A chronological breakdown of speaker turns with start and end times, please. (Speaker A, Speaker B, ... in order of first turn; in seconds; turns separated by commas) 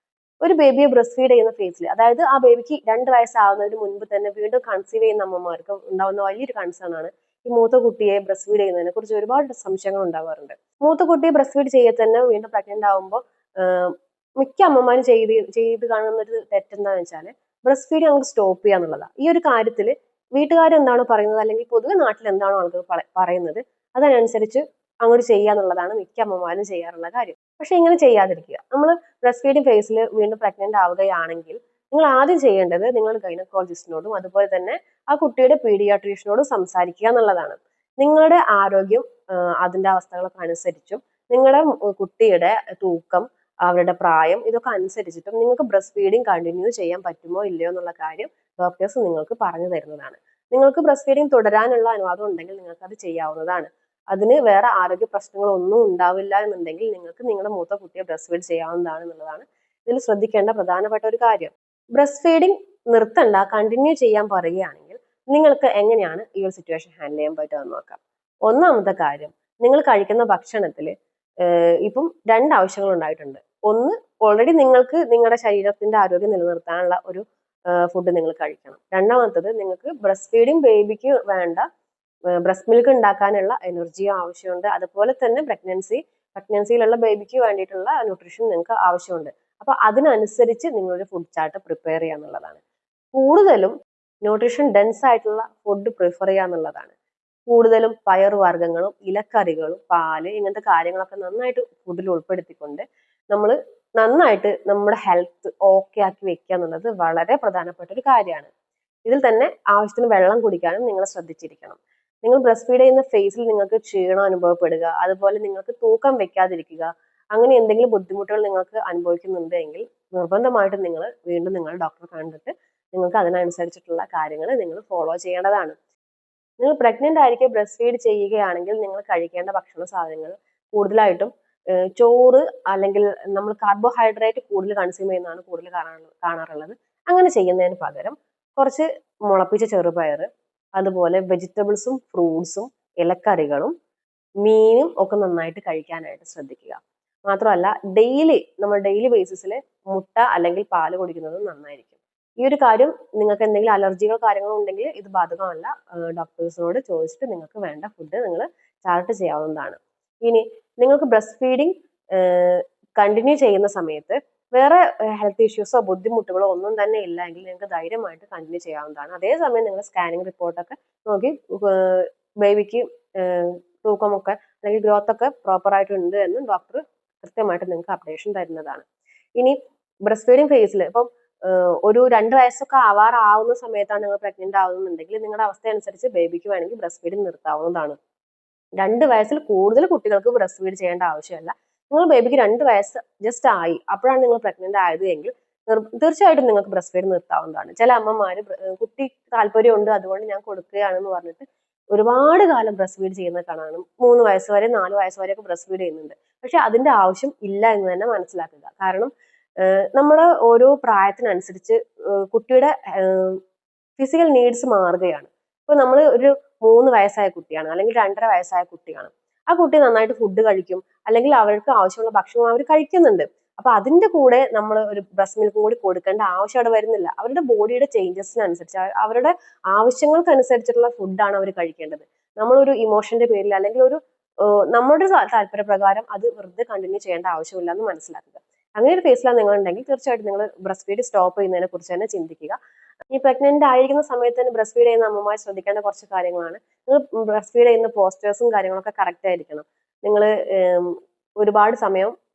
Speaker A: 0.4-81.7, Speaker A: 82.4-92.6, Speaker A: 93.1-93.7, Speaker A: 94.2-96.9, Speaker A: 97.5-108.5, Speaker A: 109.0-125.8, Speaker A: 126.6-131.3, Speaker A: 131.9-143.7, Speaker A: 144.4-178.8, Speaker A: 179.4-188.0, Speaker A: 188.8-209.1, Speaker A: 209.6-213.4, Speaker A: 214.0-234.0, Speaker A: 234.7-242.6, Speaker A: 243.1-252.1